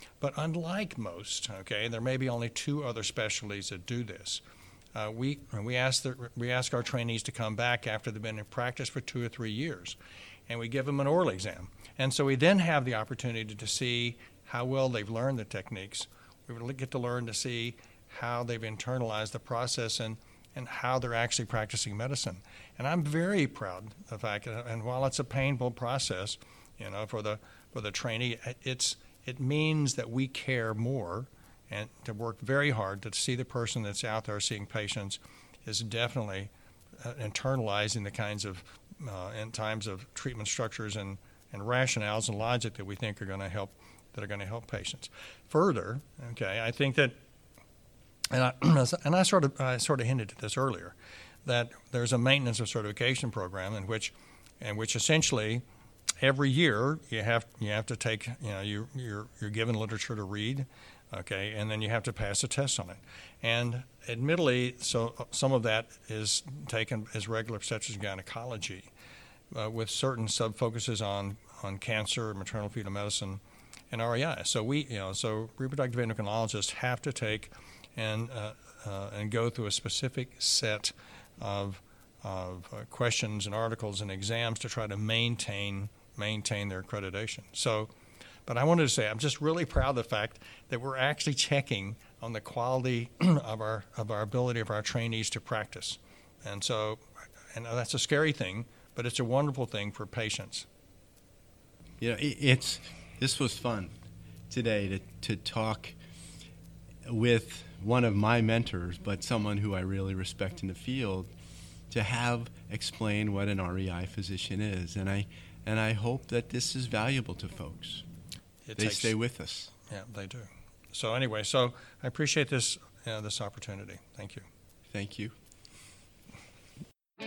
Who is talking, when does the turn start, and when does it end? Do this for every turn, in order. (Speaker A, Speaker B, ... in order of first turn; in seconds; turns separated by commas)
Speaker A: 0.2-4.4, Speaker A: 4.9-10.0, Speaker A: 10.5-47.2, Speaker A: 48.3-55.6, Speaker A: 56.2-68.9, Speaker A: 69.5-87.9, Speaker A: 88.5-100.7, Speaker B: 102.0-103.9, Speaker B: 104.5-105.9, Speaker B: 107.0-111.3, Speaker B: 111.9-118.0, Speaker A: 118.6-119.2, Speaker B: 118.8-119.7, Speaker A: 119.8-124.5, Speaker B: 124.9-125.3